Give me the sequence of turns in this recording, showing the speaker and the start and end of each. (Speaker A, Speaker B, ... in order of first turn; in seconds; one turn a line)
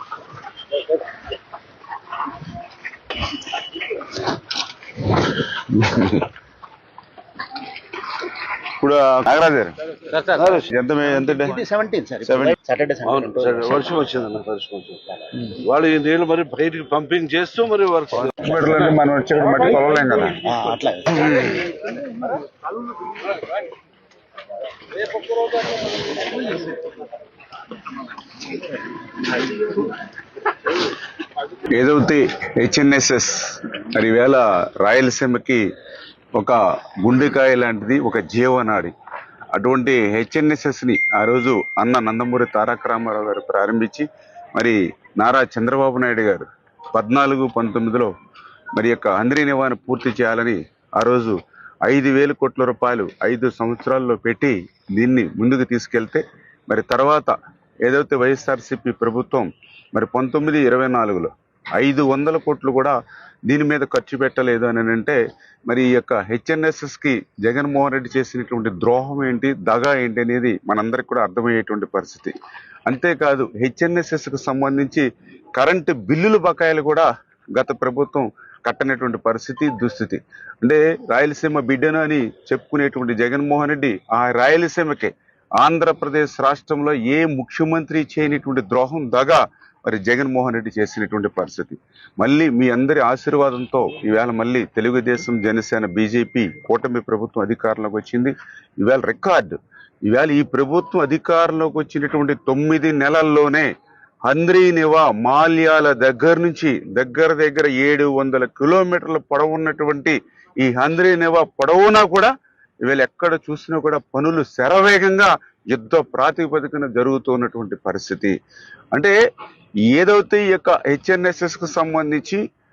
Speaker A: 5.3-6.3
Speaker A: 8.8-9.7
Speaker B: 10.1-10.6
Speaker A: 10.4-11.6
Speaker C: 11.2-13.8
Speaker A: 12.2-12.6
Speaker B: 13.0-18.3
Speaker A: 18.1-20.4
Speaker C: 20.4-21.6
Speaker A: 31.7-35.6
Speaker A: 36.3-38.9
Speaker A: 39.5-44.0
Speaker A: 44.6-48.1
Speaker A: 48.7-57.3
Speaker A: 57.8-63.0
Speaker A: 63.5-65.2
Speaker A: 65.7-72.3
Speaker A: 72.9-99.5
Speaker A: 100.0-103.7
Speaker A: 104.2-112.3
Speaker A: 112.8-118.3
Speaker A: 119.9-122.4